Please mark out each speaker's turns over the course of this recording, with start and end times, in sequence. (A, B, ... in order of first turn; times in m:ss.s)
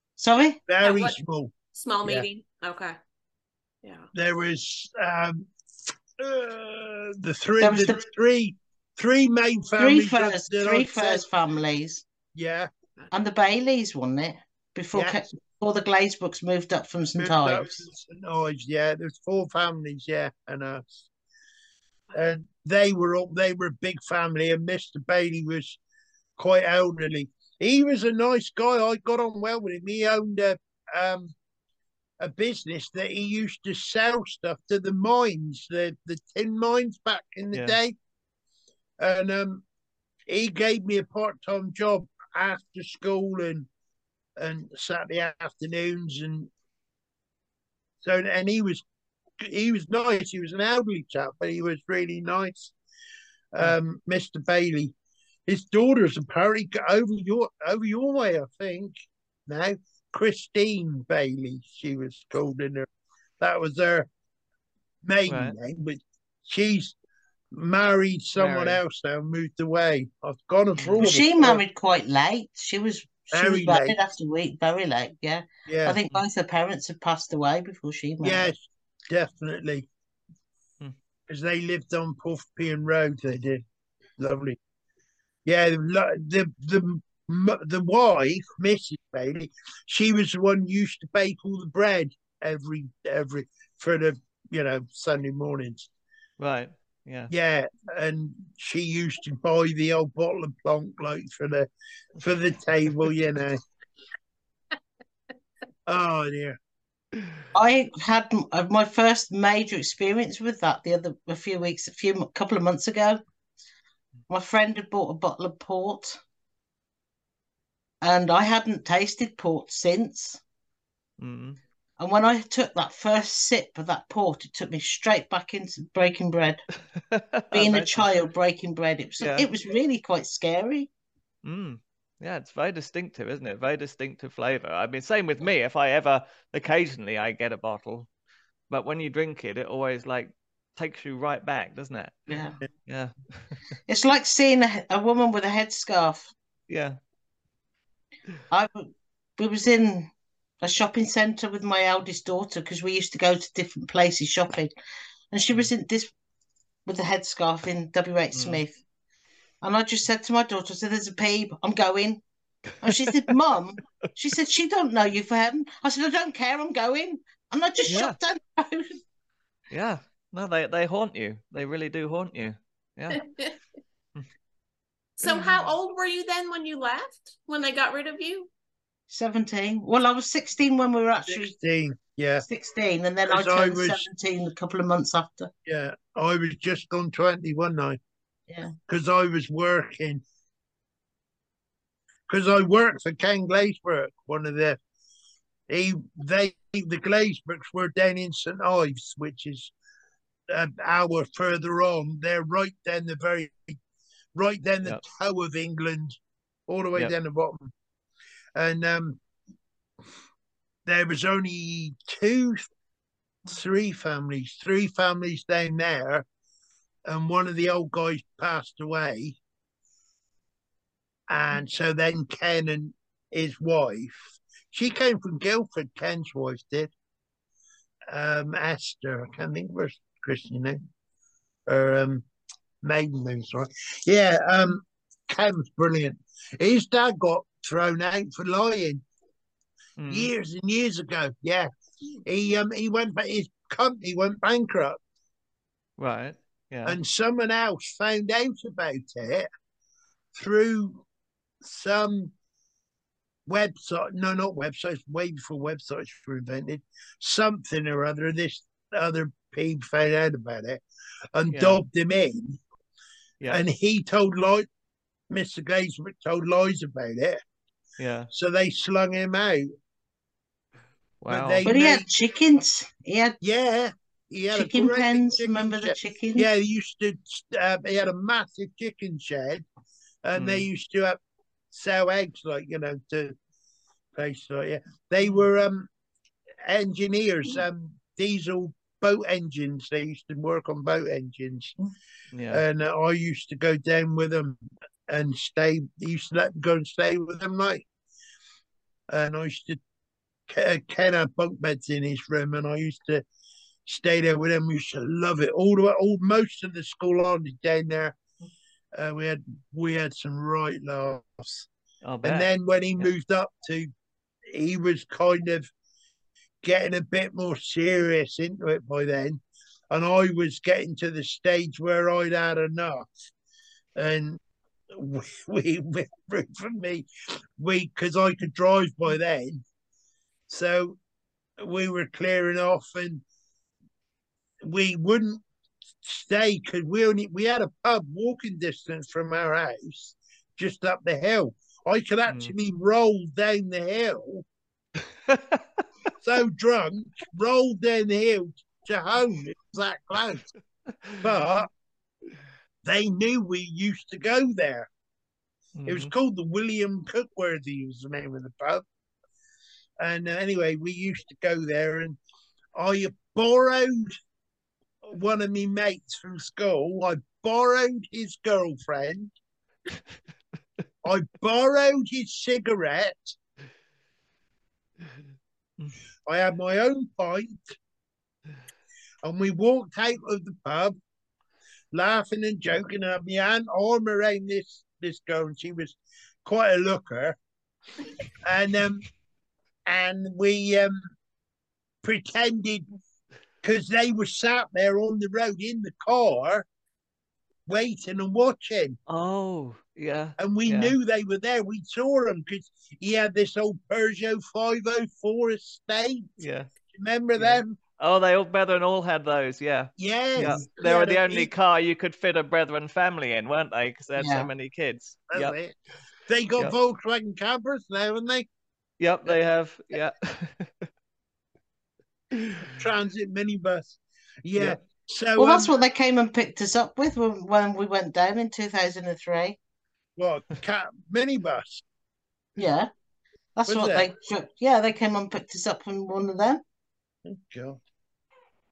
0:00.2-0:00.6 A
0:00.7-0:02.3 B
0:00.8-0:01.2 C
0:01.7-0:03.0 C
0:04.1-0:05.5 B
0:06.2-0:11.2 B
0:07.6-0:08.0 A
0:09.8-0:12.0 A
0:12.4-0:12.7 B
0:13.1-0:17.8 A
0:14.9-0:15.2 B
0:17.2-0:21.1 B
0:22.1-0:25.8 B
0:26.4-0:31.3 B
0:32.2-0:38.0 B
0:39.0-0:39.6 B
0:40.3-0:43.7 B
0:44.4-0:46.5 B
0:48.0-0:48.8 B
0:49.4-0:52.7 B
0:53.5-0:54.9 B
0:55.5-0:58.9 B
0:59.5-1:02.9 B
1:03.4-1:04.1 B
1:05.0-1:07.0 B
1:05.3-1:05.6 D
1:07.5-1:11.6 B
1:08.4-1:08.8 D
1:10.8-1:11.0 D
1:11.0-1:18.5 A
1:13.3-1:14.0 B
1:15.7-1:16.0 B
1:18.2-1:19.9 B
1:21.3-1:23.6 B
1:24.2-1:24.6 B
1:25.5-1:35.9 B
1:36.4-1:37.3 D
1:37.3-1:43.6 B
1:45.9-1:46.6 B
1:47.5-1:53.2 A
1:54.3-1:56.2 A
1:58.0-2:00.4 A
2:01.2-2:01.6 D
2:02.0-2:06.6 A
2:07.0-2:08.1 D
2:07.5-2:10.9 A
2:09.2-2:09.5 D
2:11.4-2:18.1 D
2:18.7-2:22.4 D
2:22.3-2:22.6 A
2:22.9-2:23.5 D
2:23.9-2:26.3 A
2:26.7-2:27.0 D
2:28.5-2:34.7 A
2:35.3-2:36.1 A
2:36.9-2:38.8 A
2:38.4-2:38.6 D
2:39.6-2:42.2 A
2:42.8-2:49.0 A
2:47.9-2:48.2 D
2:49.7-2:53.3 D
2:55.2-2:58.5 C
2:59.1-3:01.5 A
3:01.3-3:02.4 B
3:02.4-3:05.5 A
3:03.3-3:04.0 B
3:05.7-3:08.0 B
3:08.5-3:08.7 A
3:08.9-3:10.2 B
3:12.3-3:14.8 B
3:15.7-3:19.7 B
3:20.5-3:23.8 B
3:24.4-3:27.7 B
3:28.6-3:29.2 B
3:30.9-3:32.7 B
3:33.5-3:36.3 B
3:37.1-3:39.4 B
3:41.3-3:46.9 B
3:48.1-3:50.8 B
3:51.7-3:52.2 B
3:52.8-3:59.0 B
4:00.0-4:00.3 D
4:00.1-4:01.7 B
4:02.3-4:05.0 B
4:06.0-4:07.0 D
4:06.8-4:09.5 B
4:10.4-4:11.0 B
4:11.6-4:12.3 B
4:13.5-4:20.8 B
4:21.3-4:22.6 B
4:21.5-4:21.8 D
4:23.5-4:24.7 B
4:25.3-4:27.4 B
4:28.0-4:28.3 D
4:28.3-4:29.7 B
4:31.2-4:31.7 D
4:31.3-4:32.0 B
4:31.6-4:33.4 A
4:33.4-4:39.6 B
4:34.5-4:36.5 A
4:40.2-4:41.2 B
4:40.4-4:40.7 D
4:41.7-4:43.4 B
4:44.2-4:45.9 B
4:46.6-4:51.8 B
4:52.3-4:52.6 D
4:52.5-4:57.9 B
4:59.1-4:59.8 B
5:00.5-5:03.2 B
5:03.9-5:08.2 B
5:09.0-5:11.7 B
5:12.0-5:13.1 D
5:12.2-5:13.9 B
5:14.5-5:15.7 B
5:16.6-5:23.1 B
5:24.0-5:24.4 B
5:24.9-5:29.6 B
5:30.5-5:31.0 B
5:31.6-5:33.2 B
5:34.6-5:35.4 B
5:36.0-5:44.4 B
5:42.3-5:42.5 D
5:45.3-5:45.6 D
5:46.2-5:50.5 B
5:51.2-5:51.7 B
5:52.8-5:54.9 B
5:55.8-5:56.1 D
5:55.9-5:58.8 B
6:00.0-6:02.2 B
6:02.8-6:04.2 B
6:05.0-6:09.3 B
6:11.0-6:13.4 B
6:16.3-6:17.8 B
6:19.2-6:21.0 B
6:21.9-6:27.4 B
6:28.4-6:29.1 B
6:29.9-6:31.0 B
6:32.0-6:32.8 B
6:33.6-6:36.7 B
6:37.7-6:39.0 B
6:39.1-6:41.0 D
6:40.4-6:47.8 B
6:46.4-6:46.7 D
6:47.4-6:55.6 D
6:50.0-6:51.5 B
6:54.2-6:54.5 A
6:55.3-6:55.8 B
6:56.3-6:58.5 B
6:59.0-7:00.9 D
7:02.4-7:02.8 D
7:02.8-7:05.7 B
7:05.4-7:09.6 A
7:10.2-7:11.8 B
7:12.6-7:12.9 A
7:13.6-7:16.6 A
7:13.7-7:14.1 B
7:17.2-7:17.8 B